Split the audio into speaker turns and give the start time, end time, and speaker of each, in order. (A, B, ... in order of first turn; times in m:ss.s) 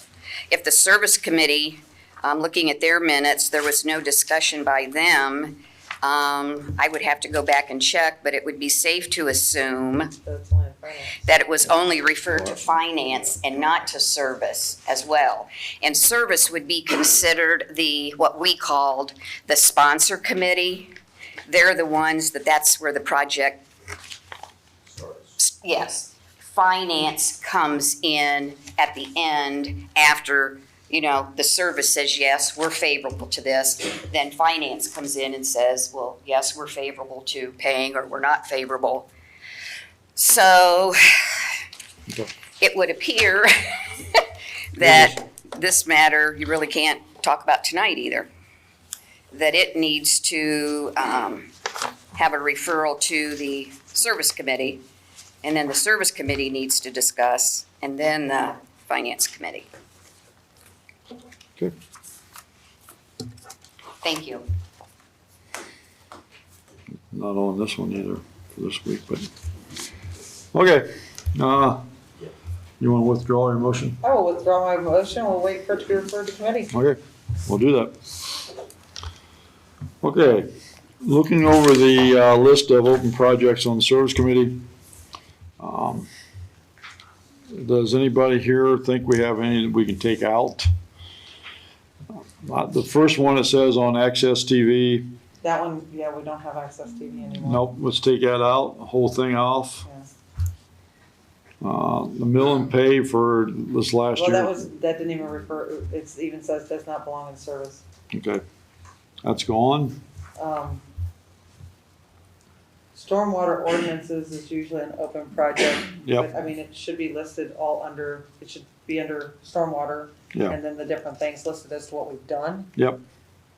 0:00.5-0:10.1 A
0:10.2-0:11.3 B
0:11.2-0:20.9 A
0:21.5-0:23.6 A
0:25.4-0:39.1 A
0:40.2-0:41.5 A
0:42.6-0:48.3 A
0:44.8-0:45.2 C
0:49.3-0:51.5 A
0:52.1-0:54.8 A
0:55.4-0:59.7 A
1:04.0-1:04.5 A
1:07.1-1:09.3 C
1:10.5-1:11.9 C
1:12.8-1:14.0 C
1:14.0-1:16.7 B
1:16.7-1:18.0 C
1:20.0-1:20.5 C
1:21.0-1:24.6 C
1:25.6-1:26.1 C
1:27.5-1:30.7 C
1:32.1-1:35.1 C
1:35.4-1:37.6 B
1:37.4-1:39.9 C
1:41.6-1:44.7 C
1:44.2-1:47.8 B
1:48.1-1:48.4 C
1:49.2-1:50.0 C
1:50.4-1:50.8 B
1:53.0-2:02.7 B
1:56.0-1:56.3 C
2:02.8-2:03.0 C